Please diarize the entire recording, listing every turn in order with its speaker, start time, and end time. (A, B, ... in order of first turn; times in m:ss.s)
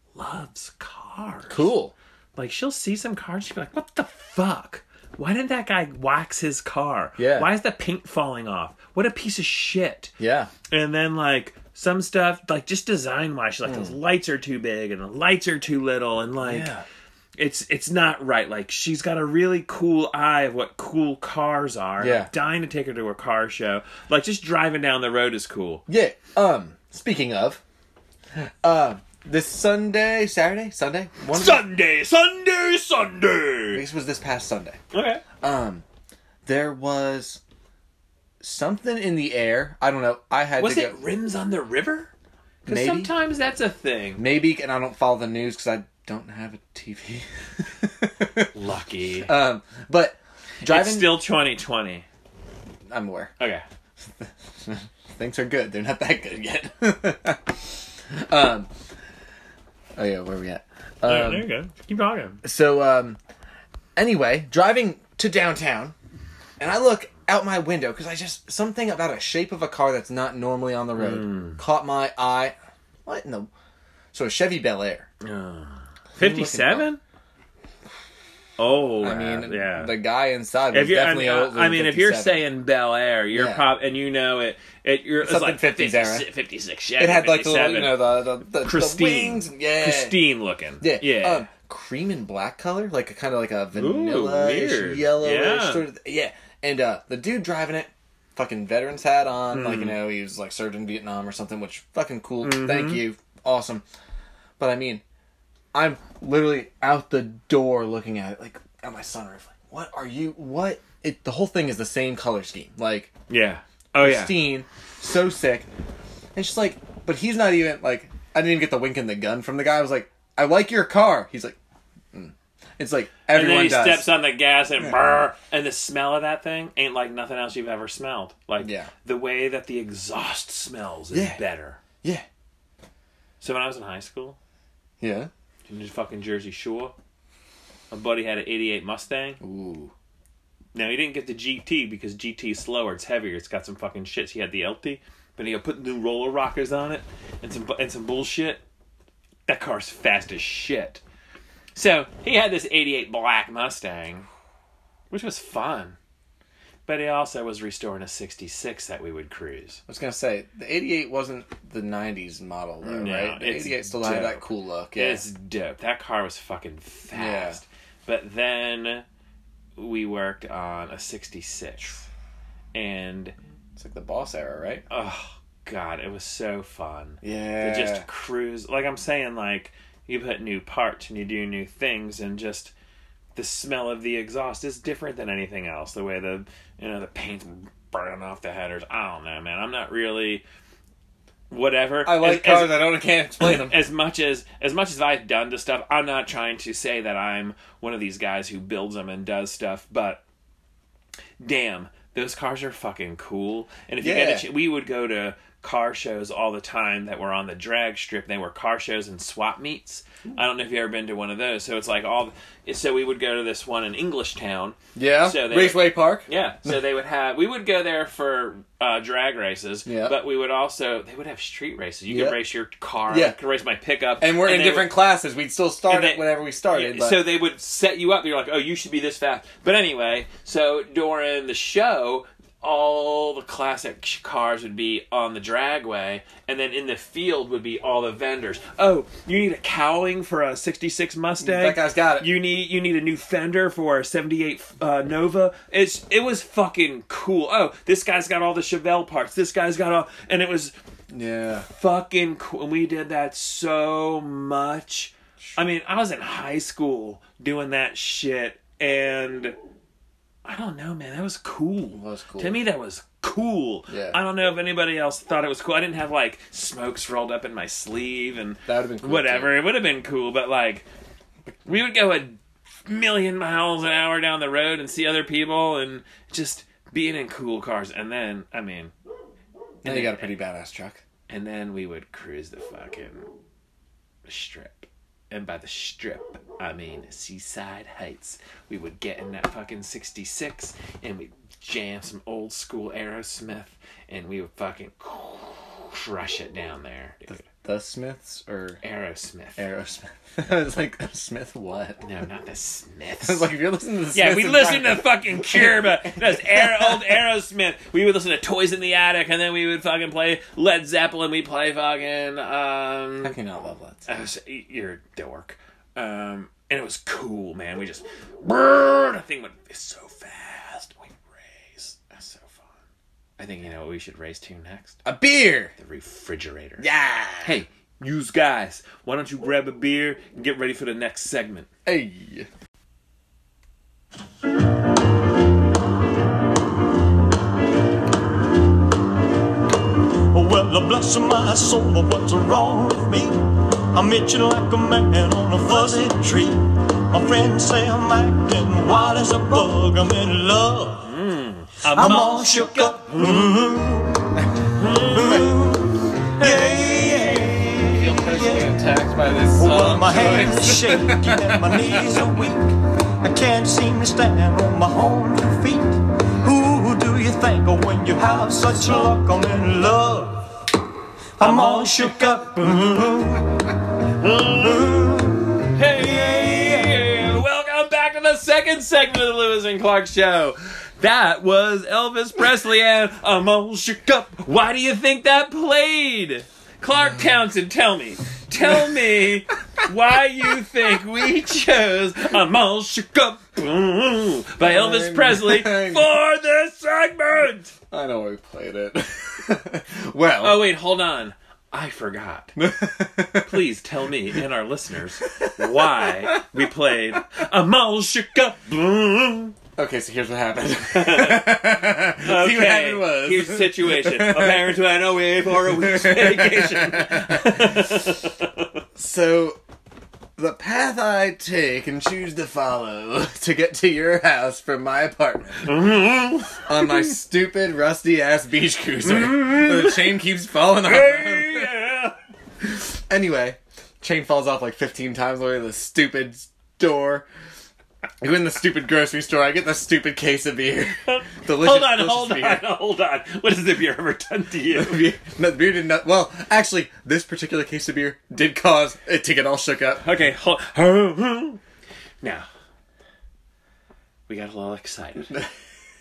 0:00.1-0:01.7 A
0:01.5-0:01.9 B
0:02.4-0:10.1 A
0:07.2-0:07.5 B
0:10.2-0:10.5 B
0:10.7-0:16.7 A
0:13.6-0:13.9 B
0:16.4-0:16.8 B
0:17.4-0:25.8 A
0:22.0-0:22.3 B
0:25.9-0:27.6 B
0:28.4-0:31.6 B
0:31.3-0:33.8 A
0:33.7-0:34.8 B
0:34.9-0:35.2 A
0:35.4-0:35.8 B
0:36.4-0:37.4 B
0:38.4-0:41.0 B
0:40.6-0:42.1 A
0:42.6-0:43.1 B
0:42.7-0:44.2 A
0:44.2-0:48.5 B
0:48.5-0:49.3 A
0:49.2-0:51.2 B
0:50.6-0:52.0 A
0:52.9-0:53.3 B
0:53.4-0:53.6 A
0:54.2-0:58.7 B
1:00.0-1:01.5 B
1:01.0-1:02.4 A
1:02.4-1:03.2 B
1:04.0-1:05.9 B
1:06.6-1:13.5 B
1:11.0-1:11.6 A
1:14.1-1:15.1 B
1:15.2-1:17.0 A
1:16.1-1:16.9 B
1:18.6-1:20.0 A
1:19.0-1:22.4 B
1:20.7-1:31.5 A
1:23.3-1:23.7 B
1:25.2-1:26.3 B
1:27.0-1:30.2 B
1:30.8-1:43.8 B
1:33.7-1:35.8 A
1:39.5-1:40.0 A
1:42.4-1:43.0 A
1:44.6-1:45.0 B
1:45.7-1:53.1 B
1:53.3-1:54.4 A
1:54.0-1:55.7 B
1:56.3-2:01.6 B
2:02.1-2:04.1 B
2:03.3-2:11.8 A
2:08.6-2:08.9 B
2:11.1-2:11.4 B
2:13.4-2:14.4 A
2:15.0-2:15.3 B
2:15.7-2:16.9 A
2:17.9-2:19.4 A
2:19.4-2:19.9 B
2:20.7-2:28.6 A
2:29.5-2:31.0 A
2:31.7-2:34.3 A
2:35.1-2:36.0 A
2:36.8-2:39.8 A
2:39.9-2:45.2 B
2:42.8-2:49.0 A
2:47.1-2:47.6 B
2:49.8-2:52.0 A
2:52.7-2:53.3 A
2:53.8-2:54.8 B
2:54.9-3:02.7 A
2:57.2-2:58.0 B
3:03.3-3:10.4 A
3:11.5-3:12.9 A
3:12.0-3:13.8 B
3:13.4-3:20.2 A
3:21.4-3:45.0 A
3:24.0-3:24.5 B
3:34.9-3:36.7 B
3:39.8-3:40.2 B
3:42.1-3:42.4 B
3:43.1-3:43.4 B
3:44.2-3:47.2 B
3:45.9-4:10.7 A
4:01.4-4:02.3 B
4:11.1-4:11.7 B
4:11.7-4:19.6 A
4:20.4-4:30.9 A
4:21.9-4:22.6 B
4:23.9-4:24.2 B
4:28.6-4:29.5 B
4:31.6-4:38.9 A
4:39.8-4:40.4 A
4:39.8-4:41.0 B
4:41.3-4:43.3 A
4:44.2-4:57.4 A
4:57.3-4:58.8 B
4:58.8-4:59.6 A
4:59.6-5:02.0 B
5:02.0-5:03.5 A
5:03.2-5:07.2 B
5:04.1-5:13.4 A
5:13.2-5:14.1 B
5:14.1-5:22.7 A
5:23.4-5:25.0 A
5:25.0-5:25.7 B
5:25.8-5:26.9 A
5:26.8-5:27.6 B
5:27.4-5:31.7 A
5:31.8-5:32.5 B
5:40.3-5:51.1 C
5:51.0-5:53.5 A
5:51.9-5:58.7 C
5:54.8-5:55.4 A
5:56.4-6:02.4 B
5:59.5-6:10.6 C
6:11.4-6:13.7 C
6:11.4-6:12.8 A
6:14.2-6:37.7 A
6:14.2-6:17.0 C
6:34.6-6:36.1 B
6:37.9-6:40.6 B
6:40.4-6:42.6 A
6:42.6-6:43.6 B
6:43.4-6:49.5 A
6:45.2-6:47.2 B
6:49.8-6:54.8 B
6:50.9-6:58.7 A
6:55.4-6:58.1 B
6:58.9-6:59.6 B
7:00.4-7:11.8 B
7:05.6-7:07.1 A
7:09.0-7:10.2 A
7:10.8-7:12.2 A
7:12.6-7:17.3 B
7:18.2-7:22.6 B
7:21.1-7:25.0 A
7:24.7-7:30.0 B
7:30.0-7:31.6 A
7:32.2-7:32.5 A
7:34.3-7:35.3 A